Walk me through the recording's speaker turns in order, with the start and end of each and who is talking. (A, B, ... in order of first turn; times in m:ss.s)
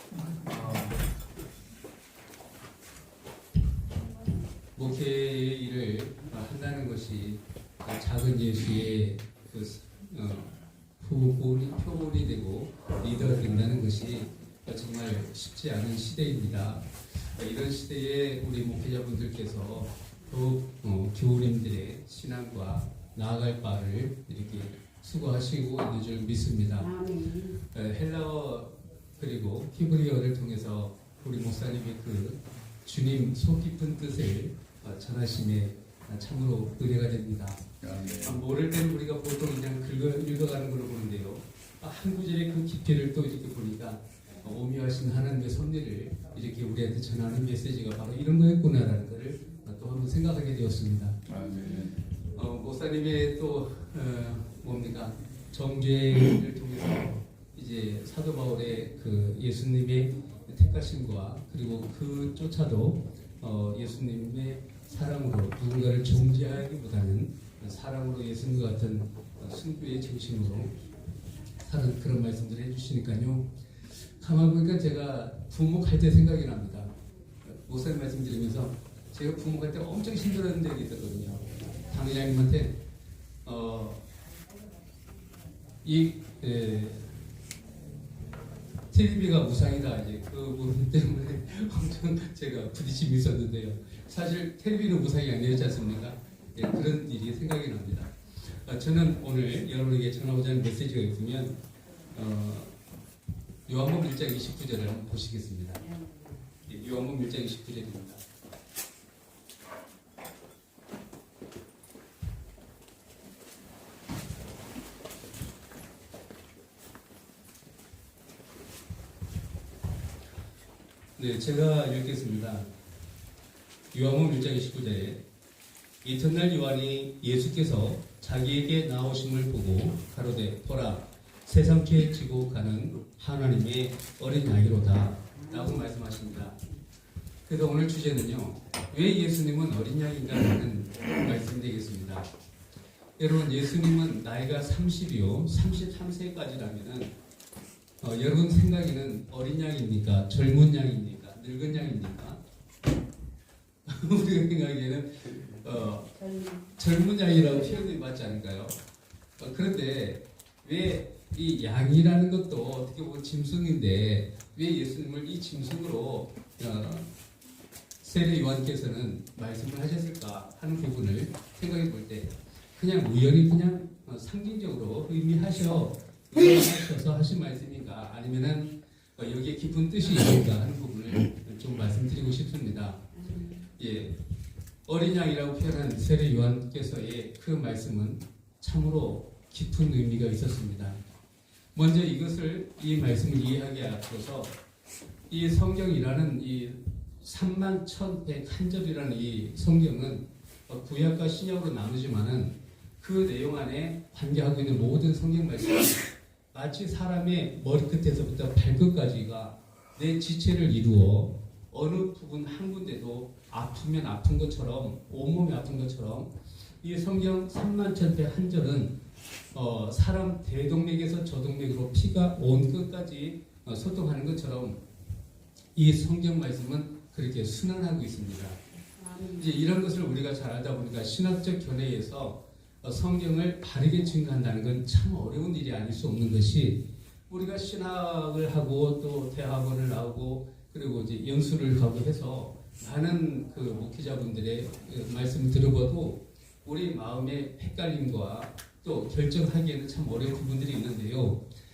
0:00.4-0:01.0 A
0:04.8-0:26.9 A
0:26.8-0:27.6 B
0:27.7-0:51.4 A
0:51.5-0:52.0 B
0:52.2-1:10.7 A
1:11.6-1:13.5 A
1:14.2-1:16.9 A
1:17.4-1:22.8 A
1:23.4-1:24.0 A
1:25.8-1:27.1 A
1:28.9-1:41.6 A
1:42.1-1:42.7 A
1:43.7-1:45.8 A
1:45.8-1:46.7 B
1:46.7-1:48.2 A
2:01.2-2:02.7 A
2:03.9-2:05.2 A
2:06.0-2:16.6 A
2:15.4-2:15.8 B
2:17.5-2:22.3 A
2:23.2-2:27.1 A
2:28.0-2:32.4 A
2:33.9-2:36.1 A
2:36.1-2:36.8 B
2:36.8-2:38.8 A
2:37.4-2:37.9 B
2:39.4-2:47.1 A
2:48.0-3:03.0 A
3:03.1-3:03.7 B
3:03.8-3:04.2 A
3:04.9-3:11.0 A
3:11.8-3:14.6 A
3:15.3-3:36.3 A
3:36.8-3:38.9 A
3:39.5-3:44.8 A
3:45.8-3:48.6 A
3:49.0-3:49.6 B
3:49.4-4:11.4 A